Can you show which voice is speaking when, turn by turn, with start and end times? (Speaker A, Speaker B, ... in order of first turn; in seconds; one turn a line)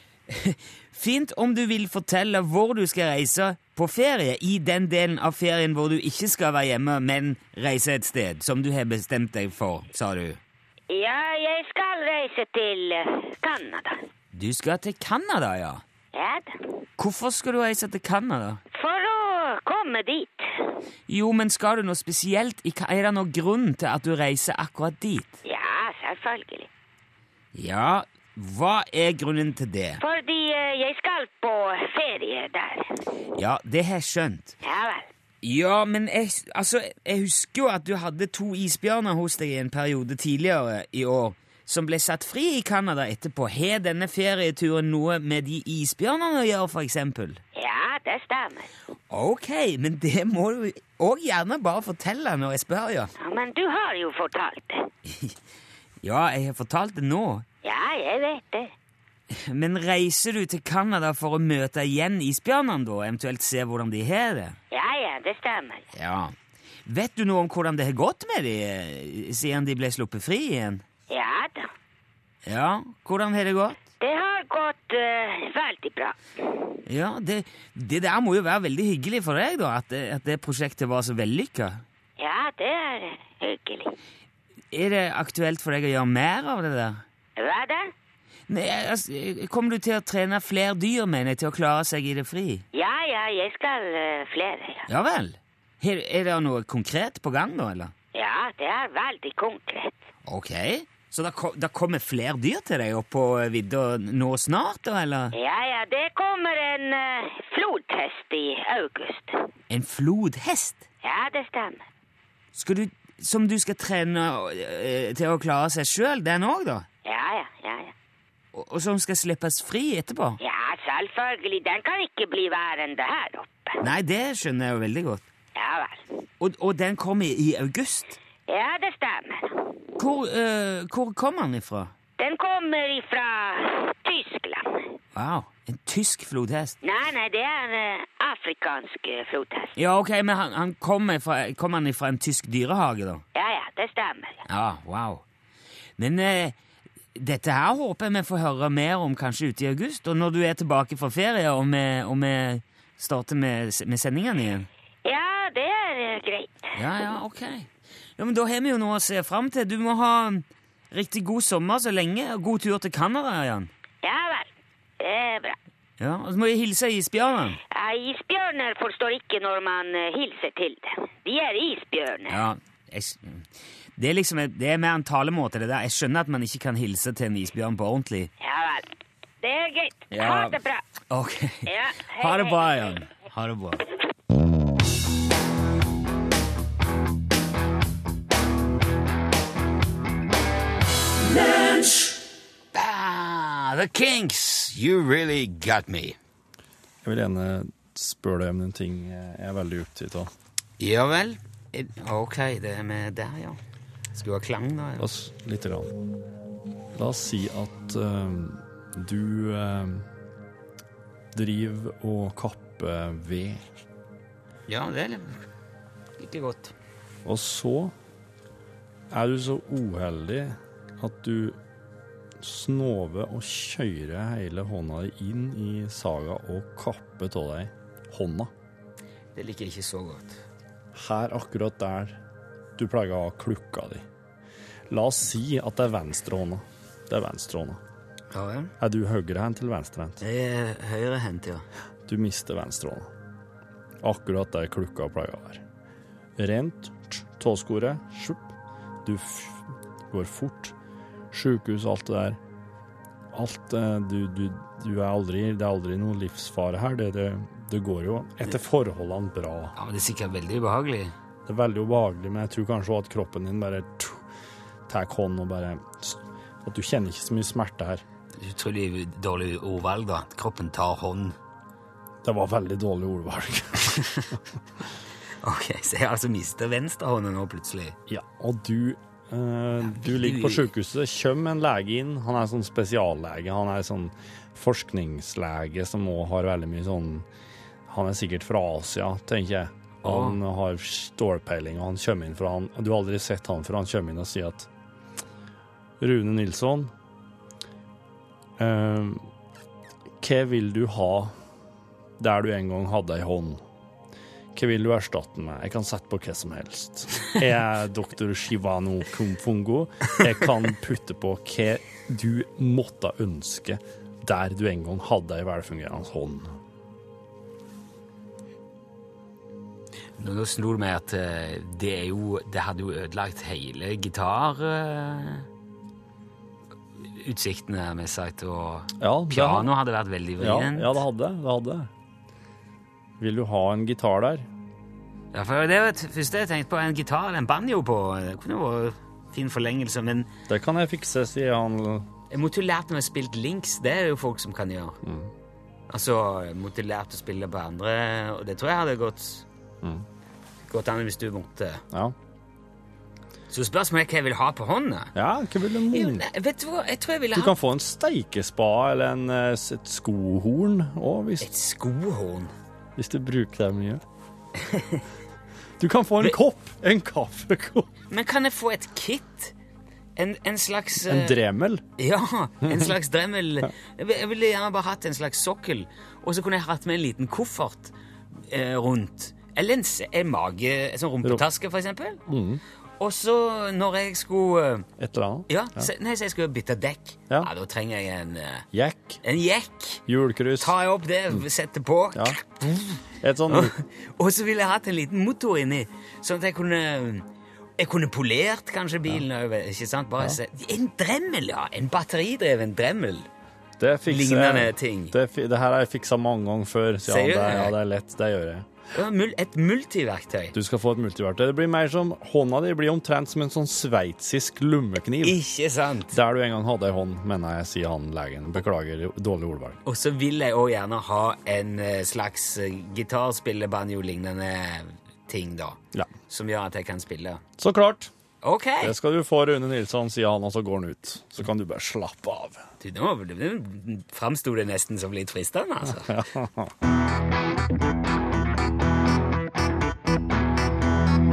Speaker A: 0.3-10.4
Speaker B: 10.9-14.0
Speaker A: 14.3-15.8
Speaker B: 16.1-16.6
Speaker A: 17.0-18.6
Speaker B: 18.7-20.7
Speaker A: 21.1-25.4
Speaker B: 25.4-26.7
Speaker A: 27.5-30.0
Speaker B: 30.0-32.9
Speaker A: 33.4-34.5
Speaker B: 34.6-35.1
Speaker A: 35.4-47.4
Speaker B: 47.5-48.7
Speaker A: 49.1-53.1
Speaker B: 53.2-54.9
Speaker A: 55.1-55.3
Speaker A: 56.0-57.5
Speaker B: 57.6-58.7
Speaker A: 59.3-64.6
Speaker B: 64.7-65.8
Speaker A: 65.9-66.3
Speaker A: 66.8-70.8
Speaker B: 71.1-71.7
Speaker A: 72.5-73.8
Speaker B: 74.0-76.7
Speaker A: 76.8-81.8
Speaker B: 82.2-83.9
Speaker A: 84.7-87.0
Speaker B: 87.4-87.9
Speaker A: 88.5-92.6
Speaker B: 92.7-94.8
Speaker A: 94.9-97.9
Speaker B: 98.1-100.0
Speaker A: 100.2-105.3
Speaker B: 105.3-109.5
Speaker A: 109.7-110.8
Speaker B: 111.0-111.8
Speaker A: 112.5-116.9
Speaker B: 117.0-117.9
Speaker A: 118.5-120.4
Speaker B: 120.4-123.8
Speaker A: 123.8-125.2
Speaker B: 125.5-126.0
Speaker A: 126.4-128.2
Speaker B: 128.5-129.7
Speaker A: 130.0-131.9
Speaker B: 132.2-134.8
Speaker A: 135.1-136.8
Speaker B: 136.8-139.7
Speaker A: 139.8-143.2
Speaker B: 143.3-144.4
Speaker A: 144.5-145.2
Speaker A: 146.0-146.6
Speaker A: 147.2-154.7
Speaker B: 155.0-156.7
Speaker A: 156.8-163.7
Speaker B: 164.0-164.5
Speaker B: 165.0-165.6
Speaker A: 166.0-167.6
Speaker B: 167.7-172.4
Speaker A: 172.3-173.4
Speaker A: 174.0-178.3
Speaker B: 178.4-178.9
Speaker B: 179.4-180.8
Speaker A: 180.1-180.6
Speaker A: 181.1-183.8
Speaker B: 181.7-183.0
Speaker A: 192.7-196.2
Speaker C: 197.0-200.3
Speaker A: 200.8-203.6
Speaker A: 204.1-205.1
Speaker C: 205.0-205.9
Speaker C: 206.9-210.1
Speaker C: 211.3-213.6
Speaker A: 214.7-215.4
Speaker A: 216.2-216.7
Speaker C: 217.2-217.9
Speaker C: 219.1-221.6
Speaker C: 222.4-228.5
Speaker A: 229.3-230.4
Speaker C: 230.9-232.2
Speaker C: 232.8-234.0
Speaker C: 234.9-237.8
Speaker A: 238.3-238.7
Speaker C: 238.8-240.2
Speaker A: 240.2-241.6
Speaker C: 242.1-243.1
Speaker C: 244.0-245.6
Speaker C: 246.4-248.5
Speaker C: 249.0-250.7
Speaker C: 251.3-252.4
Speaker C: 253.3-259.7
Speaker A: 259.8-261.1
Speaker C: 261.5-264.2
Speaker C: 264.9-268.0
Speaker A: 268.4-271.4
Speaker C: 272.2-274.1
Speaker A: 275.4-278.0
Speaker C: 278.1-287.2
Speaker A: 279.8-280.7
Speaker C: 287.9-294.7
Speaker A: 290.0-290.4
Speaker C: 296.0-296.9
Speaker C: 298.6-299.2
Speaker C: 300.2-301.3
Speaker C: 302.2-303.6
Speaker C: 304.6-316.5
Speaker A: 320.2-325.4
Speaker A: 327.1-331.0
Speaker C: 329.0-329.7
Speaker C: 330.4-331.9
Speaker C: 333.2-334.4
Speaker A: 335.3-340.3
Speaker C: 340.5-342.0
Speaker A: 342.3-345.0
Speaker C: 345.0-345.3
Speaker A: 345.9-349.4
Speaker A: 350.6-351.8
Speaker A: 353.5-355.1
Speaker C: 355.1-356.2
Speaker A: 355.9-357.5
Speaker C: 357.3-361.5
Speaker A: 361.4-362.5
Speaker C: 363.0-364.0
Speaker A: 364.6-365.0
Speaker C: 365.8-367.9
Speaker A: 368.1-369.5
Speaker A: 370.1-371.4
Speaker C: 371.0-371.8
Speaker A: 372.0-377.9
Speaker C: 372.6-372.9
Speaker A: 378.5-382.2
Speaker C: 382.3-382.6
Speaker A: 383.0-384.9
Speaker C: 385.0-385.9
Speaker A: 385.5-388.7
Speaker C: 388.7-389.2
Speaker A: 389.2-390.0
Speaker C: 390.1-390.7
Speaker A: 390.6-397.2
Speaker C: 393.2-393.7
Speaker A: 397.8-403.3
Speaker C: 403.8-408.6
Speaker A: 404.1-405.1
Speaker A: 407.0-407.8
Speaker A: 408.9-410.5
Speaker C: 410.5-415.4
Speaker A: 415.2-416.1
Speaker C: 416.1-419.8
Speaker A: 419.8-427.4
Speaker C: 427.6-428.1
Speaker A: 428.4-428.9
Speaker C: 428.8-432.6
Speaker A: 432.8-436.2
Speaker C: 436.1-436.7